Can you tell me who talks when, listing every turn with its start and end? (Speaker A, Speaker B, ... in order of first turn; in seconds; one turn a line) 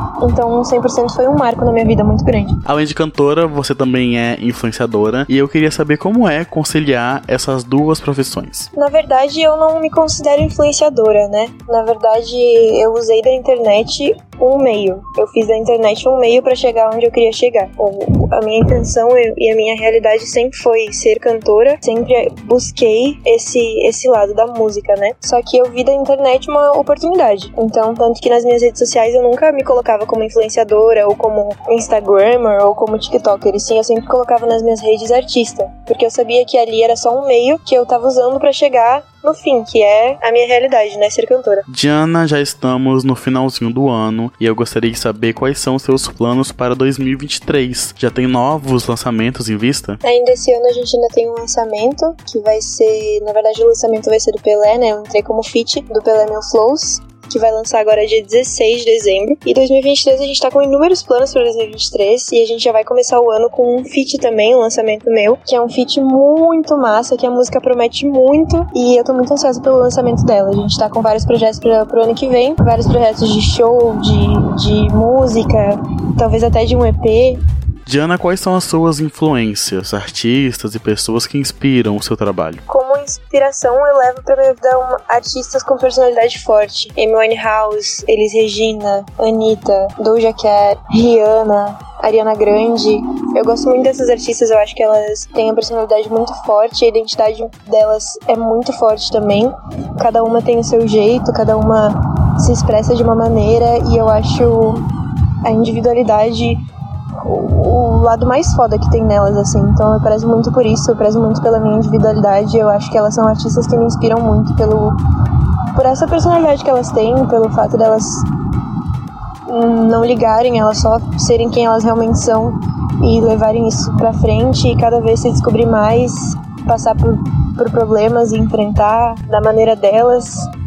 Speaker A: 0.2-2.6
Speaker B: 2.7-8.7
Speaker A: 8.7-41.6
Speaker B: 41.7-50.0
Speaker A: 50.0-77.4
Speaker B: 77.9-82.6
Speaker A: 82.7-104.9
Speaker A: 105.4-106.6
Speaker A: 107.2-115.0
Speaker A: 115.7-118.2
Speaker A: 119.5-130.5